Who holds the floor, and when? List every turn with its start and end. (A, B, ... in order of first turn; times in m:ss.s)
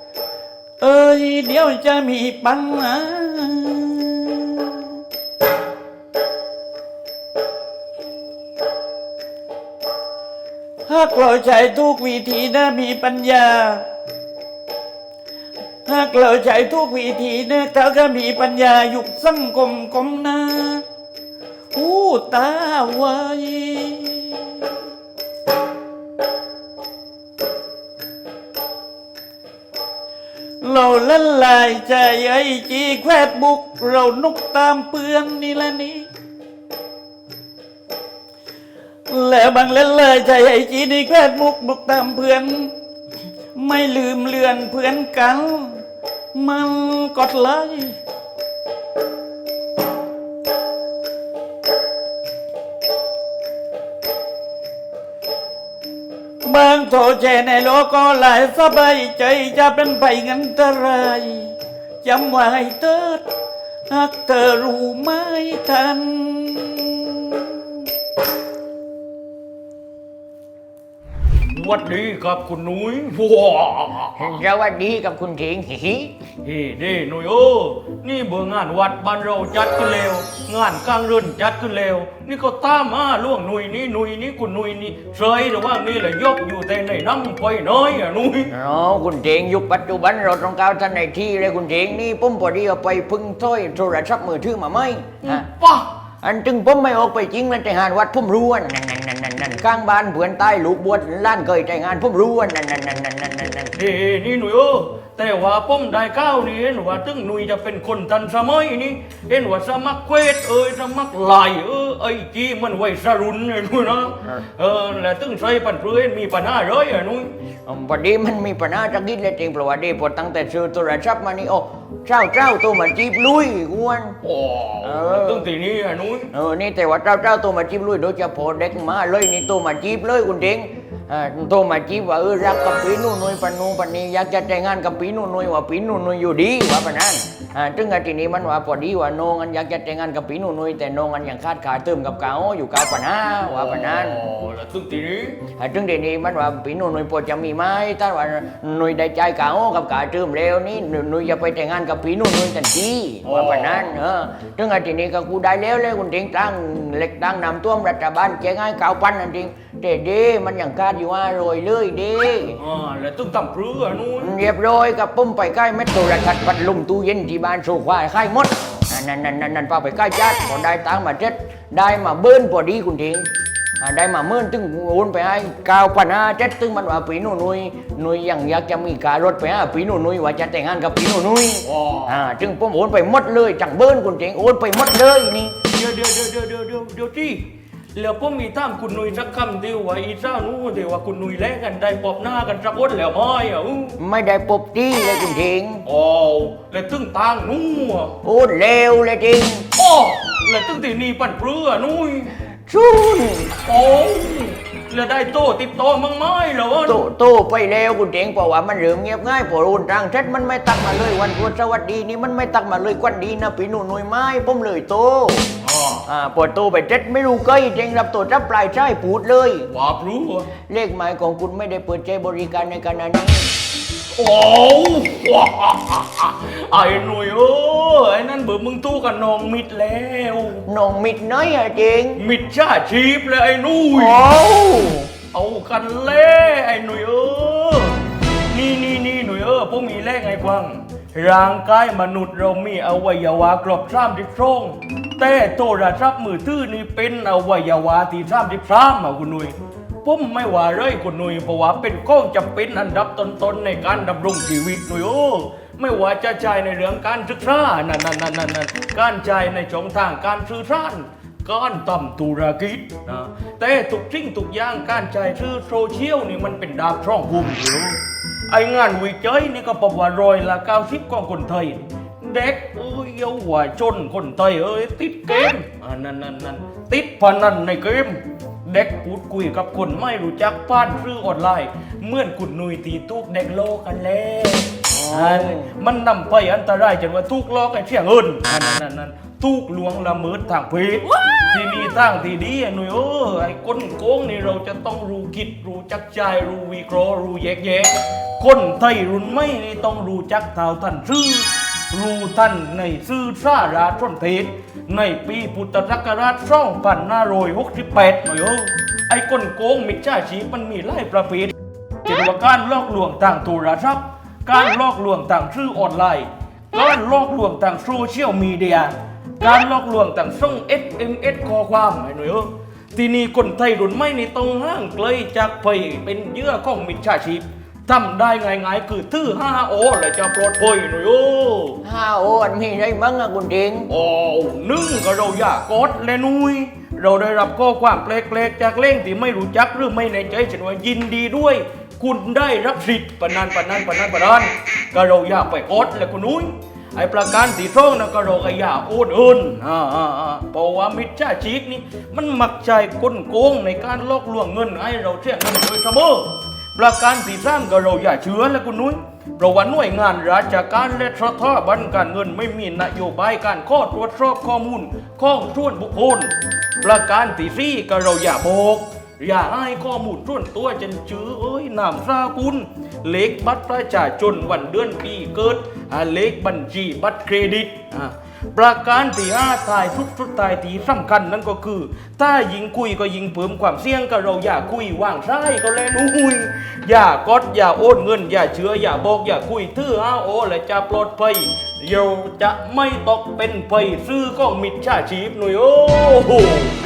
0:00.8-0:05.0 A
0:10.8-0:13.9 A
0:15.8-0:20.8 A
0:21.7-0:24.8 A
0:30.6-0:36.1 A
0:39.1-0:42.7 A
0:43.5-0:48.0 A
0:56.4-1:03.2 A
1:03.9-1:07.8 A
1:11.5-1:14.4 B
1:14.2-1:16.1 C
1:16.4-1:28.5 B
1:28.5-1:35.4 C
1:35.2-1:35.9 B
1:36.2-1:43.7 C
1:43.7-1:57.3 B
1:57.7-2:04.2 C
2:04.2-2:06.3 B
2:04.8-2:05.5 C
2:06.3-2:24.2 C
2:23.4-2:25.4 B
2:25.6-2:42.6 C
2:33.2-2:33.9 B
2:42.6-2:44.3 B
2:44.2-2:53.3 C
2:53.8-3:05.6 C
3:01.6-3:02.2 B
3:05.7-3:07.4 B
3:07.9-3:14.0 B
3:14.0-3:15.8 C
3:15.8-3:18.1 B
3:18.2-3:19.6 C
3:19.7-3:22.3 B
3:22.7-3:23.5 C
3:23.6-3:27.0 B
3:26.8-3:35.4 C
3:35.6-3:36.0 B
3:36.1-3:39.7 C
3:39.7-3:40.5 B
3:40.7-3:43.5 C
3:44.2-3:50.6 B
3:50.6-3:52.2 C
3:52.2-3:54.3 B
3:53.9-3:55.1 C
3:55.2-3:58.0 B
3:58.5-5:11.5 B
4:44.9-4:45.6 C
5:12.0-5:31.8 B
5:31.8-5:33.9 C
5:33.9-6:36.7 B